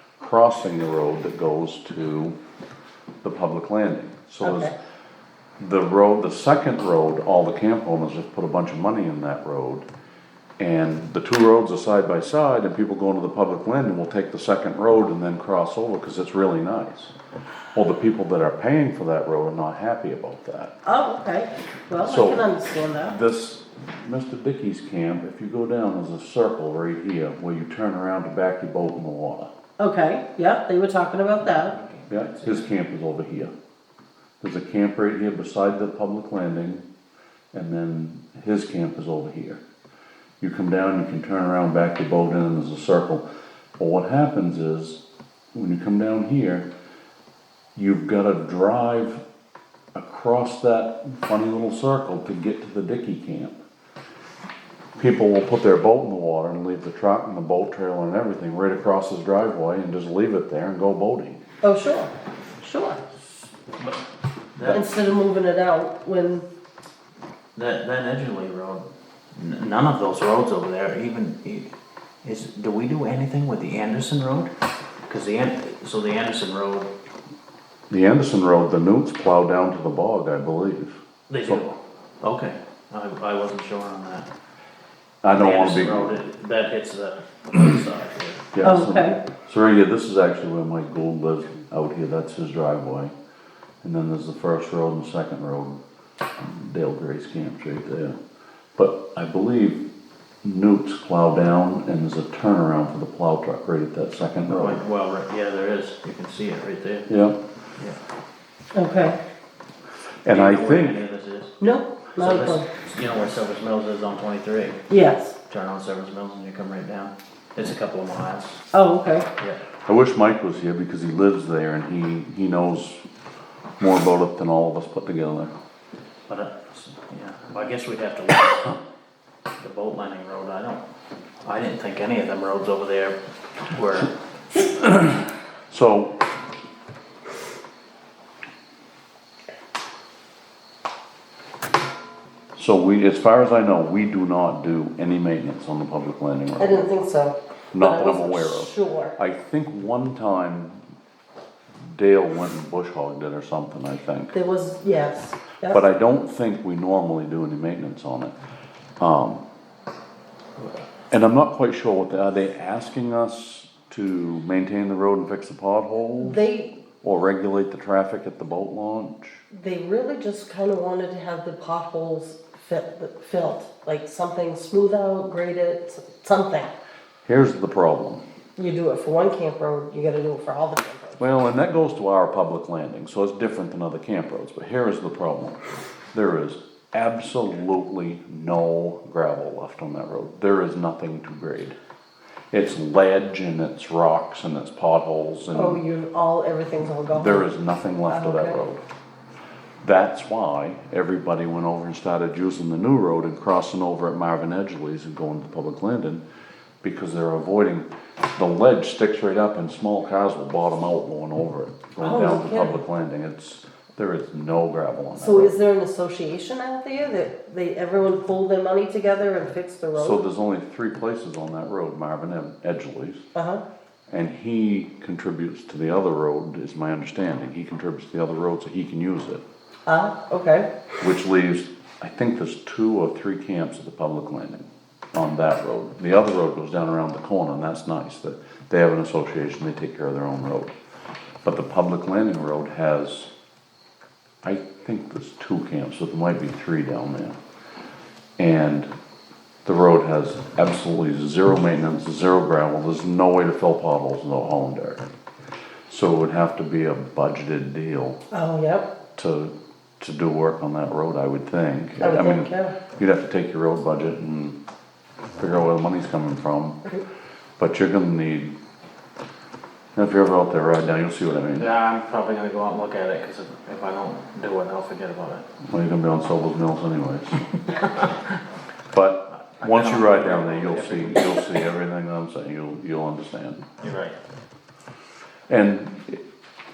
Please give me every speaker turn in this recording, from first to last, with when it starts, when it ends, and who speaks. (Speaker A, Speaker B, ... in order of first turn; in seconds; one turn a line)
Speaker A: 0.2-2.4
Speaker A: 3.2-4.7
Speaker B: 4.4-4.7
Speaker A: 5.6-9.8
Speaker A: 10.6-17.1
Speaker A: 17.7-20.7
Speaker B: 20.8-23.2
Speaker A: 22.0-22.5
Speaker A: 23.0-29.5
Speaker B: 29.8-31.8
Speaker C: 31.8-32.5
Speaker A: 32.1-33.5
Speaker A: 34.4-36.9
Speaker A: 37.5-39.6
Speaker A: 40.4-43.2
Speaker A: 43.8-45.0
Speaker A: 45.5-46.7
Speaker A: 47.8-49.2
Speaker A: 49.9-53.6
Speaker A: 55.0-61.4
Speaker B: 61.6-63.0
Speaker C: 64.5-64.8
Speaker B: 64.7-66.5
Speaker C: 67.5-71.7
Speaker C: 72.2-74.5
Speaker C: 75.1-76.9
Speaker A: 77.9-81.6
Speaker C: 81.3-84.3
Speaker A: 85.2-86.2
Speaker C: 85.3-88.5
Speaker A: 88.5-93.1
Speaker B: 88.6-89.2
Speaker A: 93.8-95.8
Speaker A: 96.4-98.2
Speaker A: 98.8-99.9
Speaker A: 100.4-104.8
Speaker C: 104.5-107.1
Speaker A: 107.1-107.4
Speaker B: 108.7-109.2
Speaker A: 110.2-111.0
Speaker C: 110.3-111.5
Speaker B: 111.6-112.7
Speaker C: 112.2-114.9
Speaker B: 114.9-115.4
Speaker C: 115.5-118.6
Speaker B: 118.7-119.3
Speaker A: 119.8-123.0
Speaker A: 123.8-125.5
Speaker C: 126.3-128.8
Speaker C: 129.6-130.8
Speaker C: 131.4-134.1
Speaker A: 135.7-136.2
Speaker A: 142.6-146.9
Speaker B: 146.6-149.2
Speaker A: 147.7-150.8
Speaker A: 151.9-154.3
Speaker B: 154.3-155.8
Speaker A: 155.7-158.3
Speaker A: 159.0-159.4
Speaker A: 161.1-166.4
Speaker B: 166.2-166.7
Speaker A: 167.0-169.4
Speaker B: 169.5-176.7
Speaker A: 177.2-178.2
Speaker B: 178.6-181.2
Speaker A: 181.2-185.6
Speaker A: 186.1-191.8
Speaker A: 192.5-195.8
Speaker B: 195.5-197.5
Speaker A: 197.1-198.8
Speaker B: 198.1-198.6
Speaker A: 199.8-206.2
Speaker A: 206.8-215.6
Speaker B: 212.0-212.8
Speaker B: 215.2-220.2
Speaker A: 219.9-223.2
Speaker B: 223.3-223.6
Speaker A: 224.1-229.4
Speaker B: 229.9-230.7
Speaker A: 231.0-240.7
Speaker A: 241.4-243.3
Speaker A: 244.4-247.4
Speaker A: 248.4-248.9
Speaker A: 249.6-255.0
Speaker A: 255.9-258.2
Speaker B: 258.3-258.9
Speaker A: 259.1-264.6
Speaker B: 262.0-262.7
Speaker A: 265.4-266.8
Speaker A: 267.6-268.5
Speaker A: 269.9-271.7
Speaker C: 271.5-275.4
Speaker A: 275.7-277.4
Speaker A: 278.9-283.6
Speaker C: 279.6-281.5
Speaker C: 283.8-284.2
Speaker A: 285.5-286.2